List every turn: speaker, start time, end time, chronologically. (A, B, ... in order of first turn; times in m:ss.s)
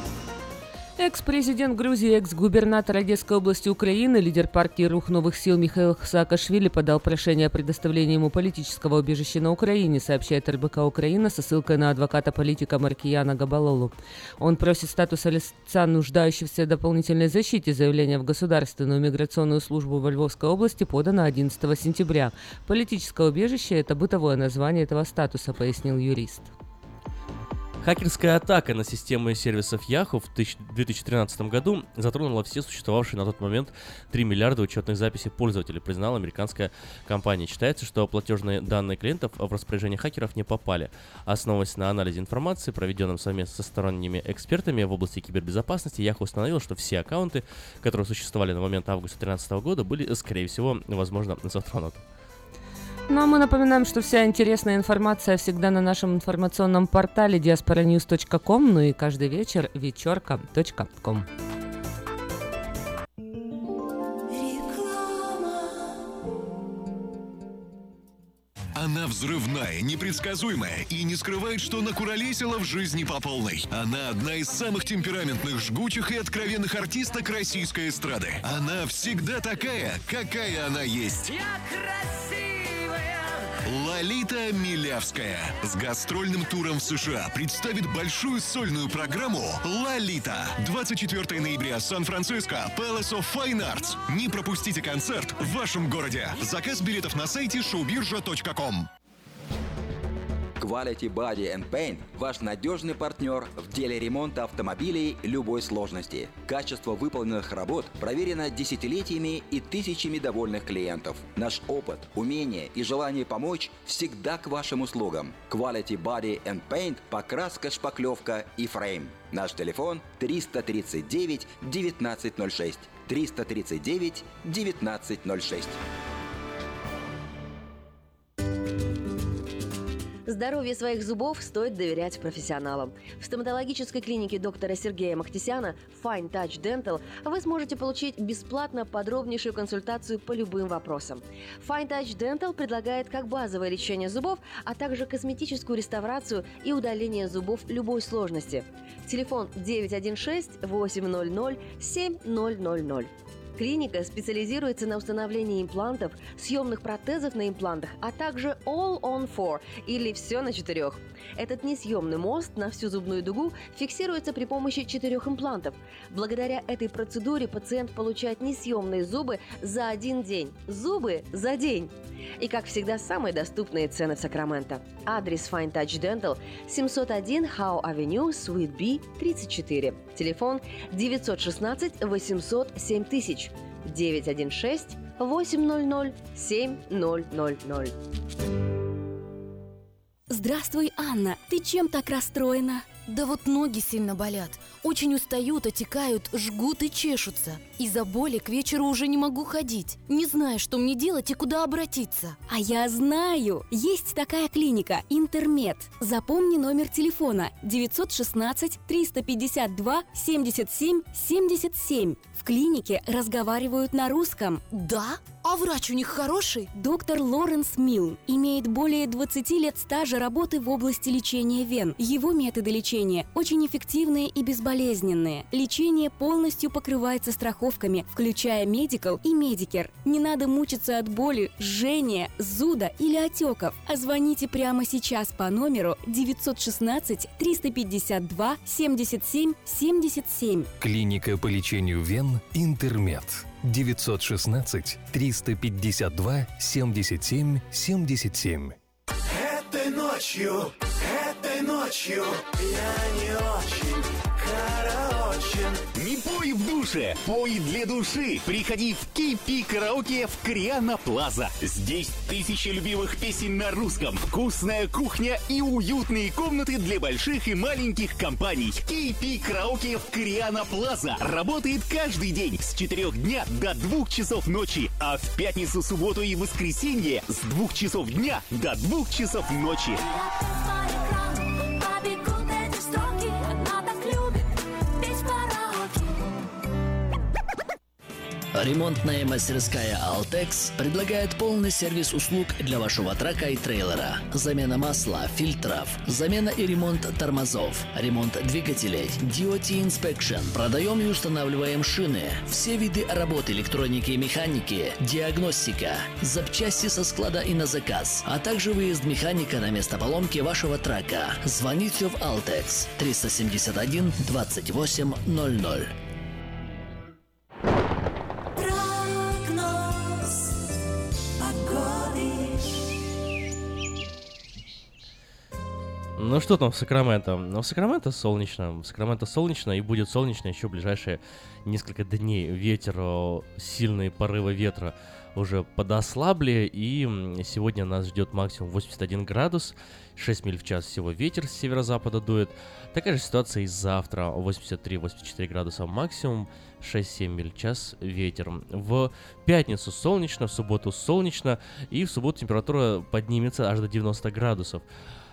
0:01.0-0:26.5 A
0:27.8-0:52.0 B
0:53.1-1:01.3 A
1:08.7-1:21.4 C
1:23.6-1:38.9 C
1:40.6-2:05.8 D
2:10.3-3:07.9 E
3:10.3-3:13.0 F
3:13.0-3:22.4 G
3:22.5-3:34.6 F
3:34.7-3:36.7 G
3:36.7-4:00.7 F
4:00.8-4:08.7 H
4:09.4-4:10.5 I
4:11.0-4:12.4 I
4:15.9-4:40.0 J
4:40.2-4:46.0 G
4:48.5-5:15.9 K
5:26.2-5:54.8 B